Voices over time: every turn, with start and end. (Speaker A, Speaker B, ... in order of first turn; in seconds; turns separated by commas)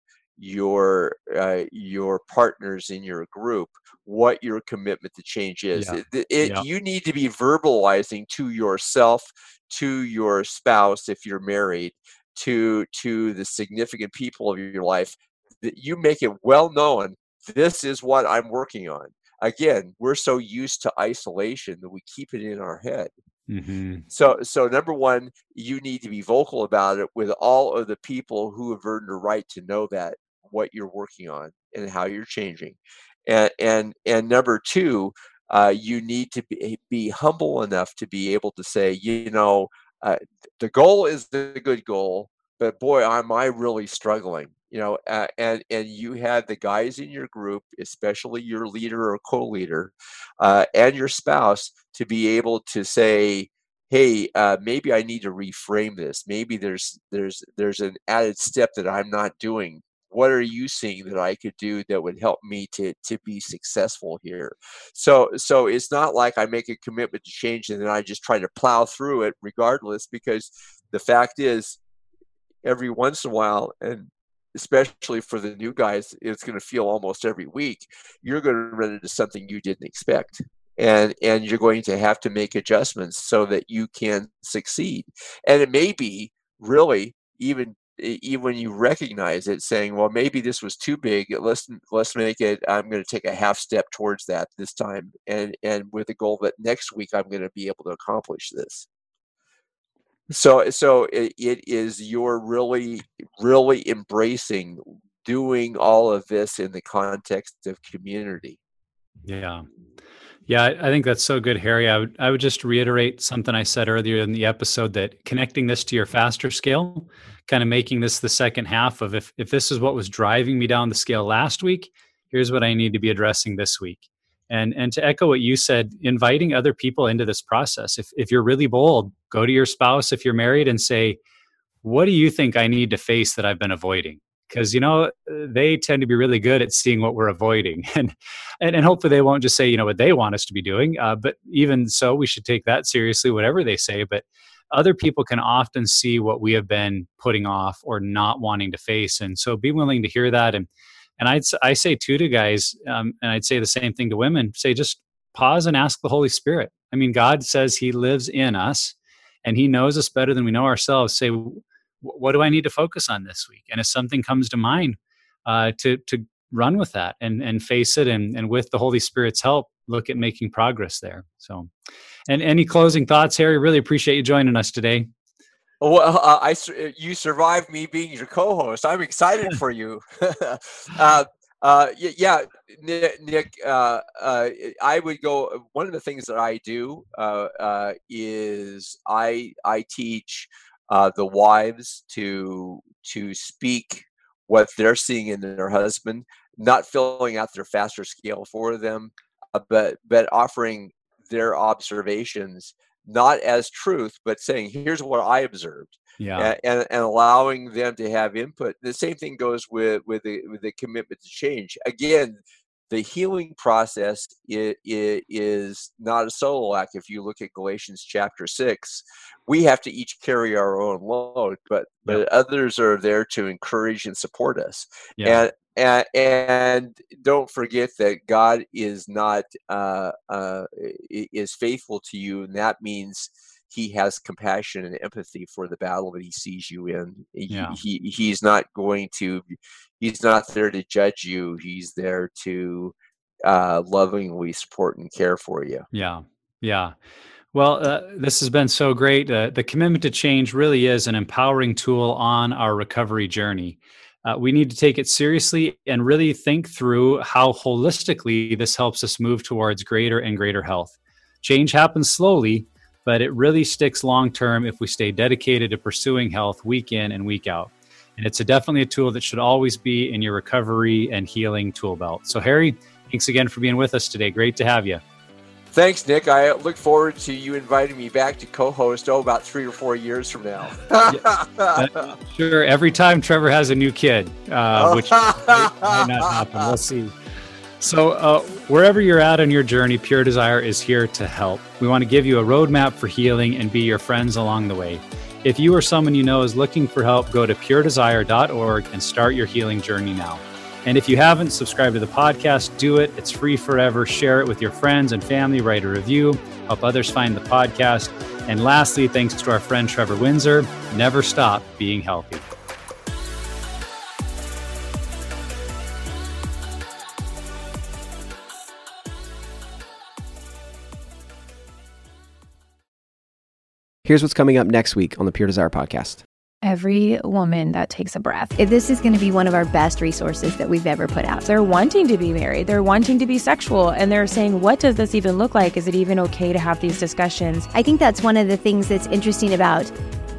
Speaker A: 0.4-23.1, Speaker B: 5.8-6.7, Speaker B: 23.5-24.1, Speaker A: 24.1-71.8, Speaker A: 72.6-98.9, Speaker A: 100.3-108.6, Speaker B: 109.2-109.6, Speaker B: 110.5-131.2, Speaker B: 131.8-150.7, Speaker B: 151.2-171.7, Speaker B: 172.3-175.1, Speaker A: 175.8-245.9, Speaker B: 206.2-206.5, Speaker B: 225.2-225.4, Speaker B: 237.5-237.8, Speaker B: 245.9-246.9, Speaker B: 247.5-275.0, Speaker A: 275.7-282.0, Speaker B: 281.1-287.1, Speaker A: 284.8-286.7, Speaker B: 287.8-312.5, Speaker C: 324.1-326.2, Speaker D: 326.6-328.6, Speaker E: 328.6-331.5, Speaker D: 331.4-337.7, Speaker E: 337.7-339.9